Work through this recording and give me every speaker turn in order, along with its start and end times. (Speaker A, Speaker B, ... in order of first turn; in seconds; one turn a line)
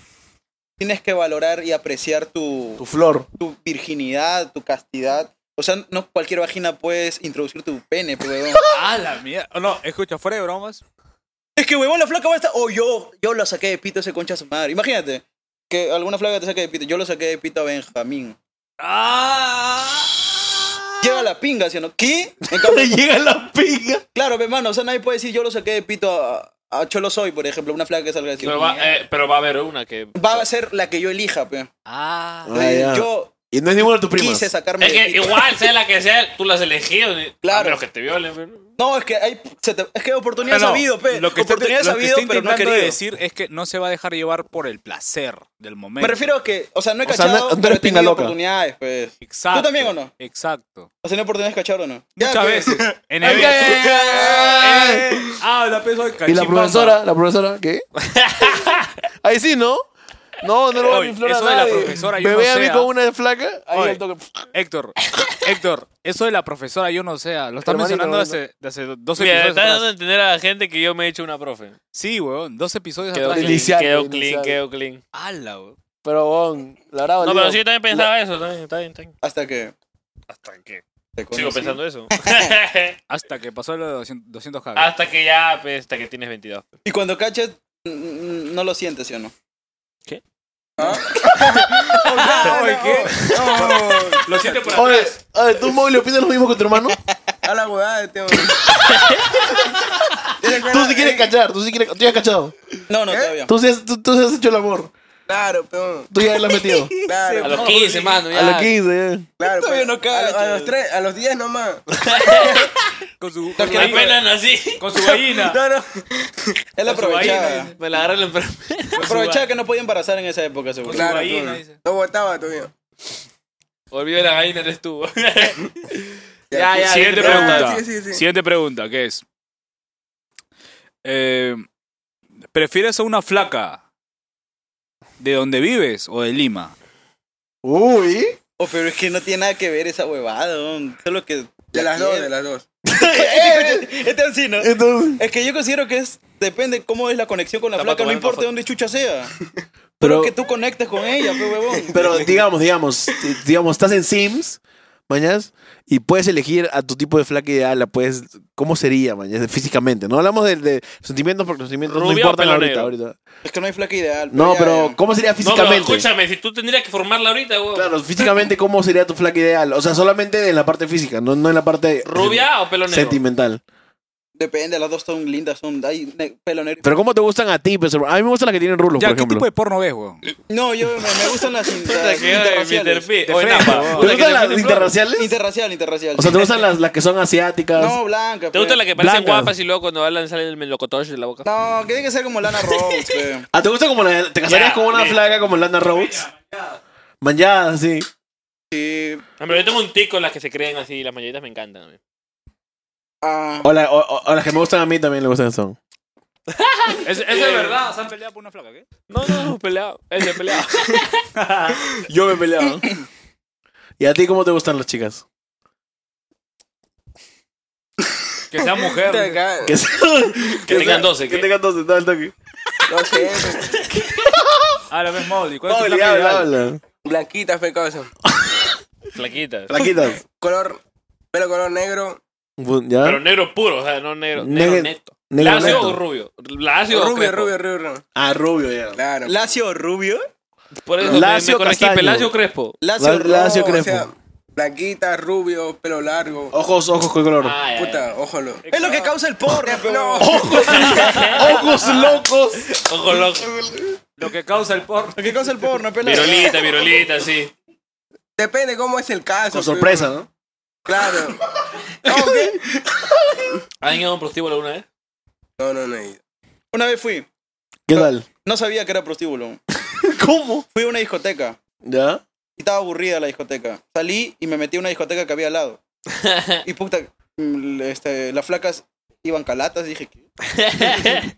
Speaker A: 0.8-2.8
Speaker B: 2.8-3.3
Speaker A: 3.4-8.6
Speaker C: 8.7-10.8
Speaker A: 11.6-18.4
Speaker C: 18.8-21.2
Speaker A: 21.0-22.9
Speaker B: 22.5-24.0
Speaker A: 24.1-28.6
Speaker D: 28.4-30.5
Speaker C: 28.4-28.9
Speaker A: 30.1-31.7
Speaker C: 31.9-32.5
Speaker B: 32.5-34.5
Speaker A: 32.5-33.3
Speaker A: 34.1-35.5
Speaker D: 34.8-38.7
Speaker A: 37.4-37.8
Speaker A: 38.8-43.0
Speaker C: 40.5-46.2
Speaker A: 46.0-50.1
Speaker B: 47.0-48.4
Speaker C: 49.2-50.9
Speaker A: 51.0-52.9
Speaker C: 52.2-57.0
Speaker B: 53.2-55.3
Speaker B: 56.2-57.8
Speaker D: 58.0-58.9
Speaker B: 59.2-59.8
Speaker B: 60.4-64.5
Speaker C: 60.8-62.9
Speaker C: 63.7-64.0
Speaker C: 64.5-69.9
Speaker B: 67.6-68.4
Speaker D: 69.2-71.8
Speaker C: 71.9-73.7
Speaker D: 73.1-75.0
Speaker B: 73.3-74.6
Speaker C: 75.1-75.8
Speaker B: 76.0-78.0
Speaker D: 77.2-79.1
Speaker A: 79.2-79.7
Speaker D: 80.3-83.0
Speaker A: 81.2-81.8
Speaker C: 83.1-84.9
Speaker D: 84.8-86.7
Speaker A: 86.8-89.3
Speaker E: 90.8-91.6
Speaker A: 91.1-94.3
Speaker C: 92.0-95.2
Speaker E: 93.5-94.2
Speaker B: 94.7-97.0
Speaker E: 97.4-98.7
Speaker D: 98.9-99.2
Speaker E: 100.4-101.3
Speaker B: 100.6-102.5
Speaker A: 102.9-103.5
Speaker E: 103.1-103.4
Speaker B: 103.5-104.9
Speaker E: 105.3-106.1
Speaker B: 106.1-106.9
Speaker E: 107.1-107.7
Speaker D: 107.4-108.7
Speaker C: 107.5-108.1
Speaker B: 108.3-109.3
Speaker E: 109.4-111.8
Speaker A: 109.5-110.7
Speaker D: 112.1-112.7
Speaker C: 113.2-114.2
Speaker A: 113.6-114.2
Speaker D: 113.6-114.8
Speaker C: 114.8-115.6
Speaker E: 115.1-115.8
Speaker A: 116.8-117.7
Speaker C: 116.8-117.7
Speaker D: 117.1-119.0
Speaker C: 118.9-119.5
Speaker A: 119.0-121.2
Speaker C: 120.8-121.8
Speaker E: 120.9-122.7
Speaker D: 123.9-125.7
Speaker E: 126.5-128.2
Speaker D: 126.5-127.8
Speaker C: 126.8-129.2
Speaker C: 131.0-131.6
Speaker C: 132.5-133.8
Speaker C: 135.2-136.7
Speaker B: 137.6-138.4
Speaker A: 138.6-142.3
Speaker E: 141.7-142.6
Speaker B: 142.8-143.9
Speaker A: 142.9-149.3
Speaker B: 144.6-145.2
Speaker D: 147.8-148.5
Speaker B: 150.0-150.3
Speaker A: 150.0-152.0
Speaker E: 151.8-152.4
Speaker B: 151.9-163.2
Speaker D: 161.8-162.9
Speaker A: 163.4-165.0
Speaker B: 164.3-166.1
Speaker D: 165.4-168.2
Speaker B: 167.7-173.6
Speaker D: 172.0-173.2
Speaker A: 174.3-176.9
Speaker B: 176.8-179.5
Speaker C: 179.0-180.2
Speaker A: 180.5-183.1
Speaker D: 181.8-184.8
Speaker C: 183.2-184.8
Speaker B: 183.9-185.3
Speaker A: 185.2-186.6
Speaker B: 186.1-188.0
Speaker A: 187.8-188.8
Speaker D: 188.5-191.5
Speaker C: 189.0-189.5
Speaker A: 191.4-193.5
Speaker B: 193.5-196.2
Speaker D: 194.5-195.2
Speaker B: 197.2-198.1
Speaker A: 198.7-199.2
Speaker D: 199.4-202.0
Speaker A: 203.2-203.7
Speaker B: 203.6-205.8
Speaker D: 206.5-207.8
Speaker C: 207.0-208.8
Speaker D: 209.1-211.1
Speaker C: 211.3-211.8
Speaker B: 212.1-212.9
Speaker B: 214.0-215.2
Speaker C: 218.5-219.4
Speaker E: 219.0-219.8
Speaker B: 219.6-222.3
Speaker D: 220.7-221.5
Speaker E: 220.7-221.0
Speaker E: 222.9-223.8
Speaker B: 224.1-224.8
Speaker C: 224.9-226.5
Speaker B: 225.6-226.8
Speaker E: 227.0-228.1
Speaker B: 228.3-228.7
Speaker D: 229.1-229.8
Speaker B: 229.7-230.2
Speaker E: 230.4-230.8
Speaker E: 231.3-232.2
Speaker B: 232.6-233.2
Speaker D: 233.0-237.5
Speaker B: 234.3-236.0
Speaker E: 235.5-235.8
Speaker E: 236.9-238.0
Speaker B: 238.1-239.0
Speaker E: 238.9-239.5
Speaker A: 239.3-240.2
Speaker D: 240.8-242.8
Speaker B: 241.0-242.3
Speaker A: 242.8-243.8
Speaker B: 243.0-244.1
Speaker E: 243.2-246.5
Speaker B: 246.5-247.6
Speaker D: 247.4-248.1
Speaker E: 247.7-248.7
Speaker C: 248.7-249.1
Speaker A: 248.7-250.5
Speaker E: 249.6-250.8
Speaker B: 250.2-252.7
Speaker D: 250.6-251.4
Speaker D: 252.8-253.5
Speaker C: 254.2-255.2
Speaker A: 255.2-256.8
Speaker D: 256.0-257.5
Speaker E: 258.4-260.1
Speaker B: 259.5-260.3
Speaker E: 260.9-261.4
Speaker E: 262.0-262.6
Speaker D: 263.8-264.9
Speaker E: 265.6-266.2
Speaker A: 266.7-267.3
Speaker B: 267.9-268.3
Speaker A: 267.9-269.6
Speaker B: 269.9-270.6
Speaker A: 270.7-271.6
Speaker B: 271.8-272.2
Speaker A: 272.6-275.8
Speaker D: 276.2-276.5
Speaker A: 276.6-280.1
Speaker D: 280.6-281.2